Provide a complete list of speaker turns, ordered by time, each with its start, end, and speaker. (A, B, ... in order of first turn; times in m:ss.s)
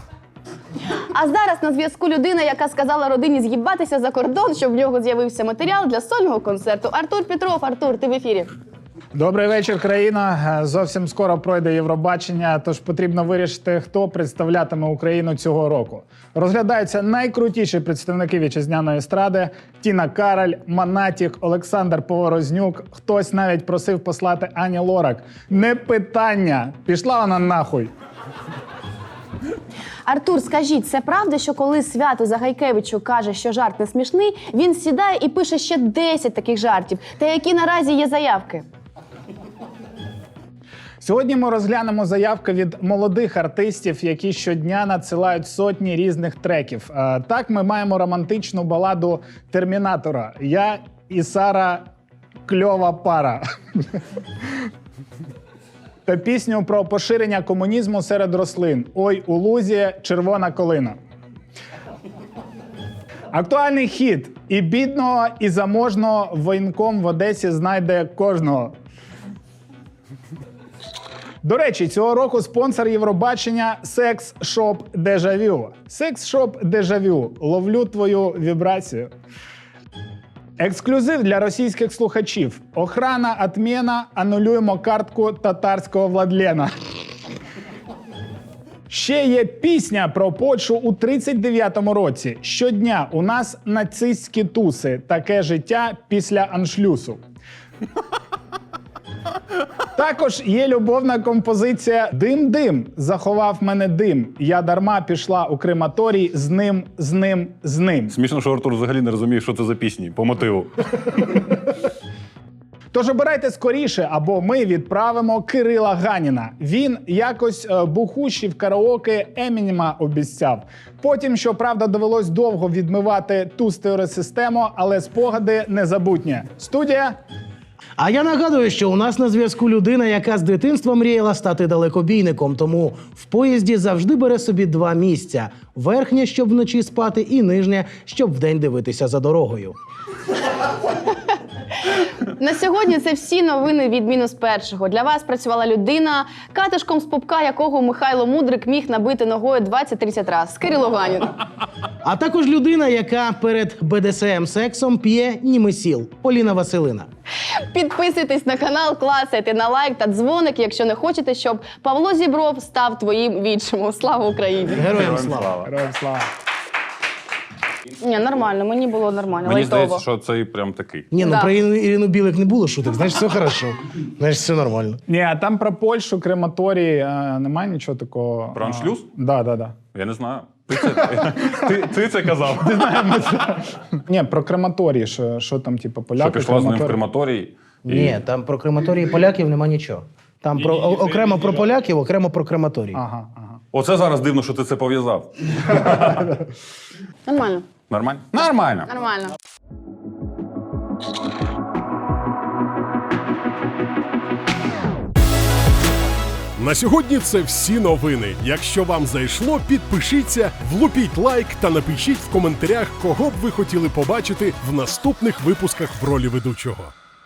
0:01.0-0:08.5 A
0:09.2-0:27.9 B
0:30.1-0:38.6 A
0:41.0-0:51.9 B
0:52.5-0:54.0 B
0:56.1-1:01.0 B
1:03.3-1:08.8 B
1:11.4-1:19.1 B
1:20.6-1:26.7 B
1:28.9-1:37.2 B
1:40.0-1:48.2 B
1:48.1-1:51.2 C
1:52.9-2:07.2 B
2:08.0-2:19.8 D
2:21.9-2:31.4 A
2:32.0-2:37.1 D
2:37.6-2:45.0 A
2:44.7-2:45.7 C
2:44.8-2:45.5 D
2:45.6-2:46.3 B
2:48.0-2:50.0 A
2:49.4-2:51.1 C
2:51.1-2:55.0 D
2:51.2-2:51.5 A
2:55.1-2:59.8 B
2:58.5-2:59.1 C
2:59.9-3:03.6 C
3:03.2-3:07.0 B
3:06.2-3:08.2 C
3:07.8-3:13.0 D
3:13.0-3:13.6 B
3:13.7-3:16.4 C
3:17.3-3:17.7 A
3:17.9-3:18.9 C
3:18.9-3:19.3 A
3:26.6-3:36.9 E